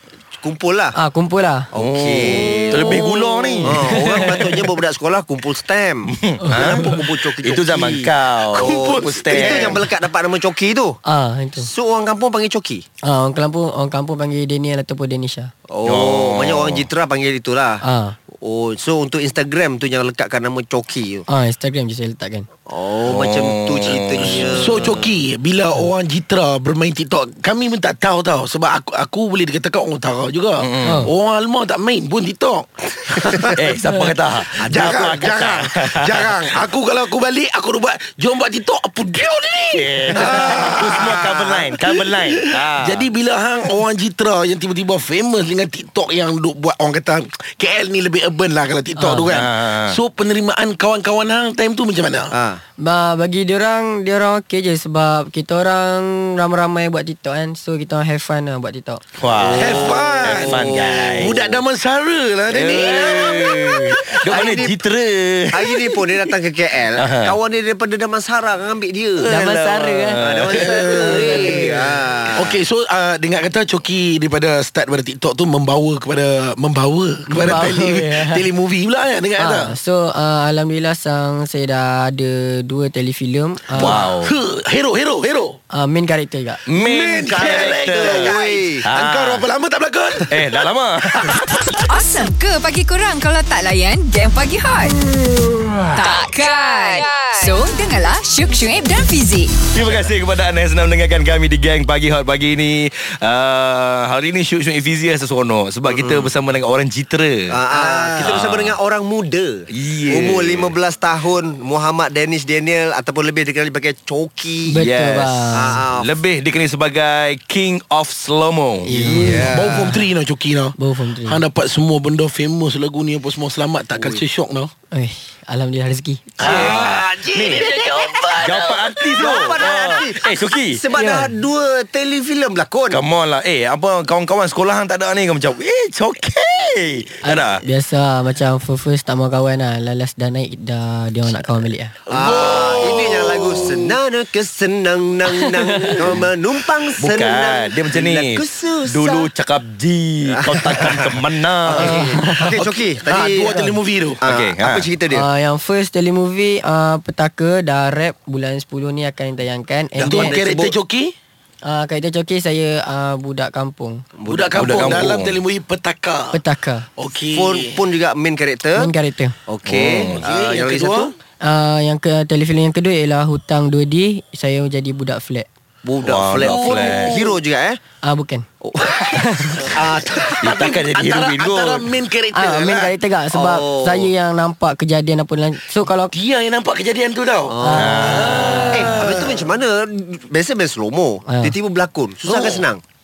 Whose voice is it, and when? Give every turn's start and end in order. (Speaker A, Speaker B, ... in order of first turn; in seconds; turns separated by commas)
Speaker A: 0.4-1.0, Speaker B: 0.9-1.7, Speaker A: 1.7-3.0, Speaker C: 1.8-4.3, Speaker B: 2.8-4.4, Speaker A: 3.7-11.0, Speaker C: 6.1-9.8, Speaker B: 6.5-6.8, Speaker D: 8.5-9.8, Speaker B: 11.0-11.7, Speaker A: 11.6-12.8, Speaker B: 13.0-15.5, Speaker A: 15.7-17.8, Speaker C: 15.8-16.9, Speaker B: 17.8-18.1, Speaker A: 18.4-21.2, Speaker B: 21.3-22.5, Speaker A: 22.7-25.1, Speaker C: 23.0-24.5, Speaker D: 24.2-33.8, Speaker C: 30.6-31.1, Speaker B: 30.8-31.1, Speaker C: 33.5-36.6, Speaker D: 34.5-52.3, Speaker A: 34.7-35.1, Speaker C: 39.7-43.0, Speaker B: 49.0-49.4, Speaker C: 49.3-50.0, Speaker A: 52.3-52.6, Speaker B: 52.8-59.0, Speaker C: 59.2-61.4, Speaker A: 59.3-61.6, Speaker D: 59.5-64.6, Speaker C: 62.5-66.1, Speaker A: 64.1-64.8, Speaker A: 65.5-69.5, Speaker C: 67.0-67.3, Speaker B: 69.2-71.8, Speaker C: 69.2-71.2, Speaker A: 70.2-72.6, Speaker D: 71.0-71.7, Speaker D: 72.3-79.8, Speaker B: 77.3-78.5, Speaker B: 79.4-84.1, Speaker C: 83.8-84.3, Speaker D: 83.8-85.6, Speaker B: 85.7-86.6, Speaker C: 86.7-89.5, Speaker D: 86.7-90.4, Speaker A: 87.3-89.0, Speaker C: 90.3-91.3, Speaker D: 91.1-91.8, Speaker E: 91.9-95.0, Speaker D: 95.1-95.9, Speaker E: 95.9-99.5, Speaker C: 99.7-107.6, Speaker A: 105.9-106.3, Speaker A: 107.5-114.8, Speaker D: 107.7-108.4, Speaker C: 108.2-108.8, Speaker C: 109.7-110.7, Speaker B: 114.7-115.8, Speaker C: 114.8-118.9, Speaker A: 115.5-116.2, Speaker B: 118.8-120.0, Speaker A: 118.9-119.9, Speaker D: 119.4-124.7, Speaker B: 120.8-121.4, Speaker B: 124.9-126.5, Speaker D: 126.4-129.4, Speaker C: 126.4-127.8, Speaker C: 128.4-130.8, Speaker A: 129.0-133.0, Speaker B: 130.9-131.3, Speaker C: 132.9-137.6, Speaker B: 137.2-141.9, Speaker D: 142.1-143.9, Speaker A: 142.1-149.3, Speaker C: 147.0-152.0, Speaker A: 150.4-155.2, Speaker B: 151.8-152.5, Speaker D: 152.3-154.2, Speaker C: 154.2-154.9, Speaker B: 155.1-160.3, Speaker A: 160.0-160.7, Speaker D: 160.0-161.1, Speaker B: 161.6-164.0, Speaker A: 164.2-165.1, Speaker D: 164.3-166.4, Speaker C: 164.6-165.4, Speaker B: 166.3-166.9, Speaker D: 167.0-167.8, Speaker A: 167.3-168.9, Speaker B: 168.8-169.3, Speaker A: 169.5-171.1, Speaker C: 169.7-170.2, Speaker D: 170.2-171.1, Speaker B: 171.4-175.5, Speaker A: 175.8-177.8, Speaker C: 176.0-177.2, Speaker D: 176.3-177.4, Speaker B: 178.0-178.4, Speaker A: 178.6-180.4, Speaker B: 179.1-179.7, Speaker D: 179.9-182.9, Speaker C: 180.4-181.9, Speaker B: 182.3-186.1, Speaker A: 183.3-184.1, Speaker D: 186.1-189.4, Speaker A: 187.5-188.2, Speaker B: 187.6-188.9, Speaker C: 187.7-188.7, Speaker A: 188.7-192.8, Speaker B: 191.2-191.5, Speaker D: 192.2-192.6